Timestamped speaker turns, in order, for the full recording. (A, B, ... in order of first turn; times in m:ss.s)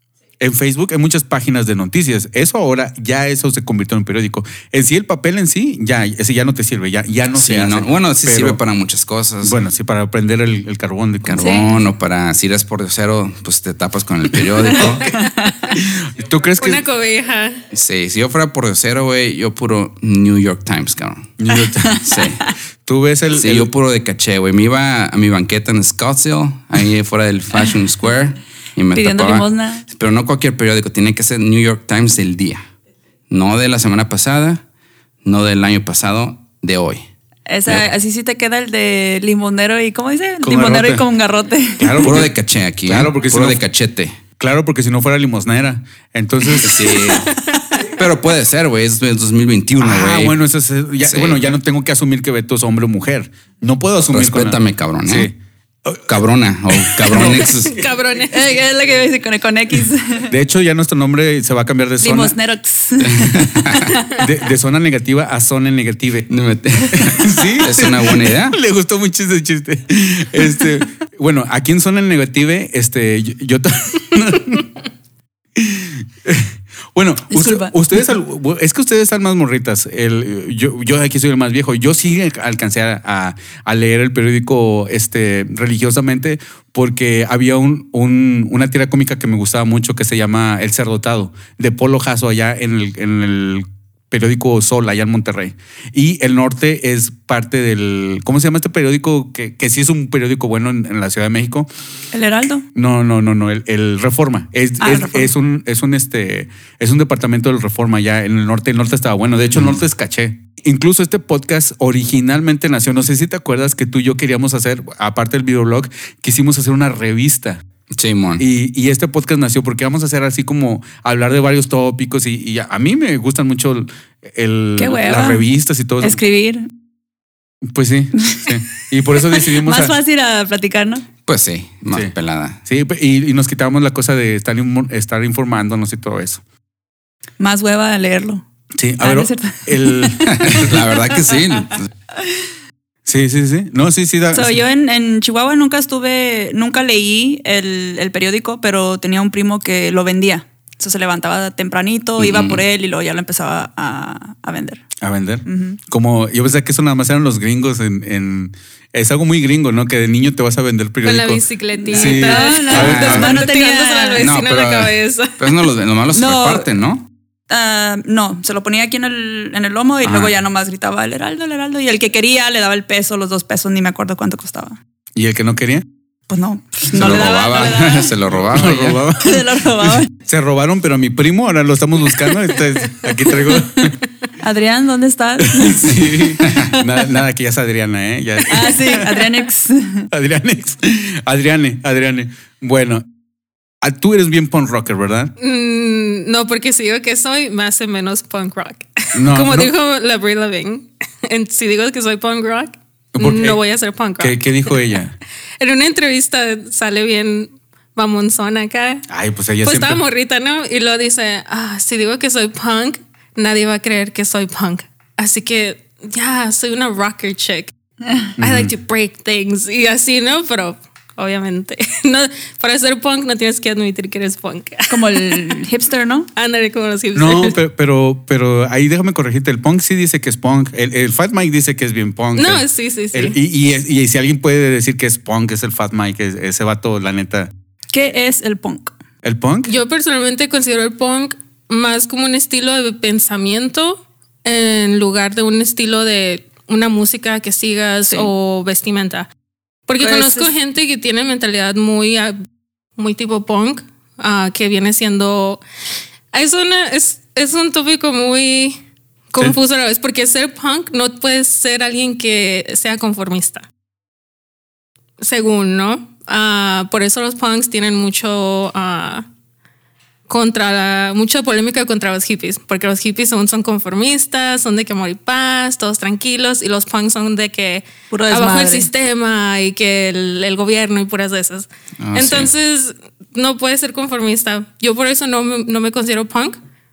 0:00.4-0:08.6 A
0:07.3-0:09.6 B
0:09.4-0:11.6 A
0:11.3-0:15.0 B
0:11.4-0:11.7 C
0:14.8-0:15.1 A
0:15.0-0:15.6 C
0:15.7-0:16.8 A
0:16.6-0:17.6 D
0:17.7-0:21.4 B
0:21.4-0:22.0 A
0:21.9-0:22.4 B
0:22.8-0:23.7 A
0:23.3-0:32.6 B
0:29.0-0:29.8 C
0:33.3-0:34.6 B
0:35.2-0:37.0 B
0:37.5-0:42.1 C
0:40.4-0:41.1 A
0:41.8-0:43.6 A
0:42.0-0:44.2 B
0:44.4-0:46.8 A
0:46.6-0:47.3 B
0:47.3-0:47.6 D
0:47.9-0:50.4 B
0:49.8-0:56.1 A
0:51.0-0:51.5 B
0:54.1-0:55.3 B
0:56.1-0:57.9 B
0:56.7-0:57.6 A
0:57.1-0:58.4 D
0:58.3-1:00.3 C
1:00.3-1:02.4 A
1:02.0-1:04.3 C
1:03.0-1:04.0 B
1:04.2-1:06.3 A
1:06.3-1:08.6 B
1:06.9-1:14.7 A
1:15.6-1:41.7 A
1:17.3-1:17.7 C
1:42.1-1:42.6 C
1:42.7-1:57.6 A
1:44.8-1:45.3 C
1:49.6-1:49.8 B
1:57.9-1:58.4 B
1:58.4-2:06.2 A
2:04.8-2:05.4 C
2:06.0-2:06.7 C
2:07.7-2:09.9 A
2:08.2-2:08.6 C
2:09.2-2:11.1 C
2:11.3-2:12.6 B
2:12.7-2:16.4 A
2:17.4-2:18.4 C
2:18.8-2:20.8 A
2:19.0-2:20.5 C
2:20.3-2:21.9 B
2:21.1-2:22.5 C
2:23.1-2:24.6 A
2:24.3-2:34.8 C
2:32.2-2:32.6 B
2:35.0-2:43.3 A
2:35.5-2:35.8 C
2:41.0-2:45.6 D
2:41.8-2:44.3 C
2:42.7-2:43.5 B
2:44.2-2:47.1 B
2:46.1-2:46.7 C
2:47.5-2:54.8 C
2:50.0-2:50.3 B
2:55.2-2:55.8 A
2:56.3-2:58.1 C
2:56.9-2:57.3 A
2:56.9-2:59.0 B
2:58.3-3:04.0 A
2:59.2-3:00.1 C
3:04.4-3:06.1 C
3:05.5-3:09.3 A
3:06.4-3:06.8 B
3:08.5-3:10.1 C
3:10.1-3:13.0 A
3:13.8-3:15.3 A
3:15.4-3:25.0 D
3:19.1-3:19.7 A
3:23.2-3:23.6 A
3:24.2-3:25.1 A
3:25.6-3:29.0 D
3:29.1-3:30.0 A
3:29.6-3:37.7 D
3:38.4-3:38.7 A
3:38.4-3:45.6 D
3:44.9-3:46.3 C
3:46.4-3:47.6 D
3:47.1-3:57.5 A
3:52.4-3:53.4 D
3:57.9-3:58.9 C
3:59.2-3:59.8 A
3:59.7-4:09.3 D
4:09.9-4:12.4 D
4:10.0-4:10.5 C
4:13.0-4:15.6 D
4:16.3-4:18.8 D
4:19.3-4:23.7 D
4:25.2-4:29.3 D
4:30.3-4:46.6 D
4:38.1-4:38.9 C
4:42.0-4:42.5 B